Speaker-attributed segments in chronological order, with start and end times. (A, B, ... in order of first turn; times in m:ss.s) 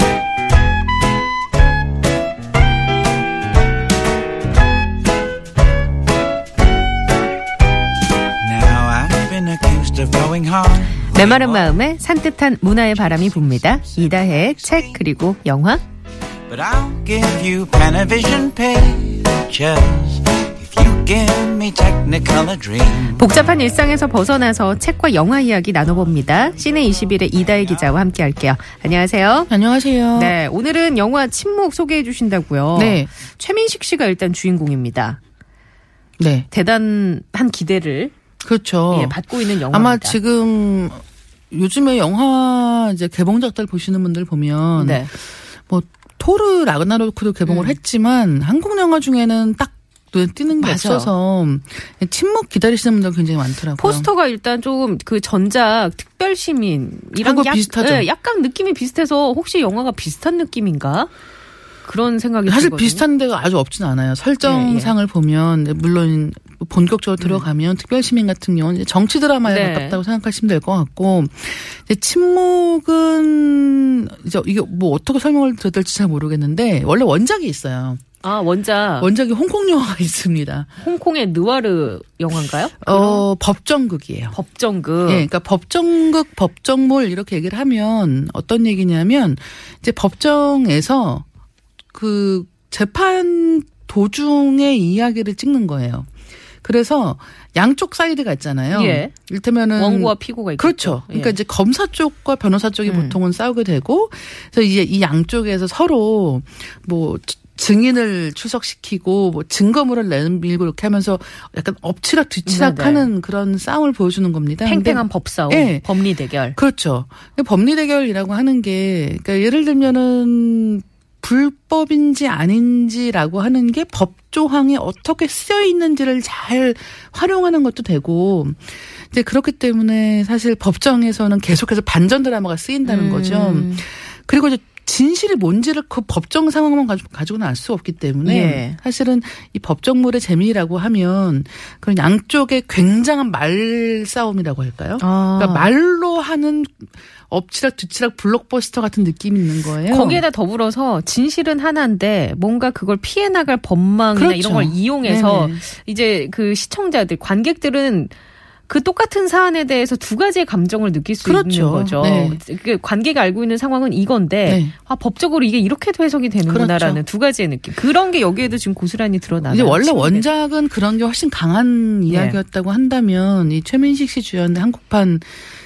0:08.4-0:11.8 A
0:11.0-0:15.8 B
0:13.0-0:15.0 A
0:16.5-0:23.2 A
0:23.0-0:29.5 B
0:26.4-0:27.8 A
0:29.5-0:30.3 C
0:30.1-0:35.2 B
0:32.7-0:33.1 C
0:36.2-0:36.5 C
0:36.5-0:38.1 B
0:38.4-0:54.1 C
0:38.9-0:40.2 B
0:44.8-0:45.1 B
0:47.5-0:47.8 B
0:50.5-0:51.1 B
0:53.8-1:01.1 B
0:57.2-0:58.1 C
1:01.8-1:03.0 B
1:02.4-1:18.0 C
1:04.4-1:04.9 B
1:09.4-1:10.0 B
1:18.2-1:19.1 B
1:19.0-1:20.7 C
1:20.8-1:23.3 B
1:22.8-1:24.4 C
1:24.3-1:25.2 B
1:25.0-1:31.2 C
1:31.9-1:36.1 C
1:36.6-2:30.2 C
1:38.7-1:39.1 B
1:39.8-1:41.4 B
1:42.8-1:43.2 B
1:52.4-1:53.1 B
1:54.6-1:56.6 B
2:12.8-2:13.8 B
2:18.2-2:18.8 B
2:25.0-2:25.7 B
2:29.8-2:38.1 B
2:34.1-2:35.6 C
2:38.7-2:50.2 B
2:41.2-2:42.4 C
2:44.4-2:44.7 C
2:46.5-2:47.0 C
2:49.4-2:55.4 C
2:52.1-2:52.4 B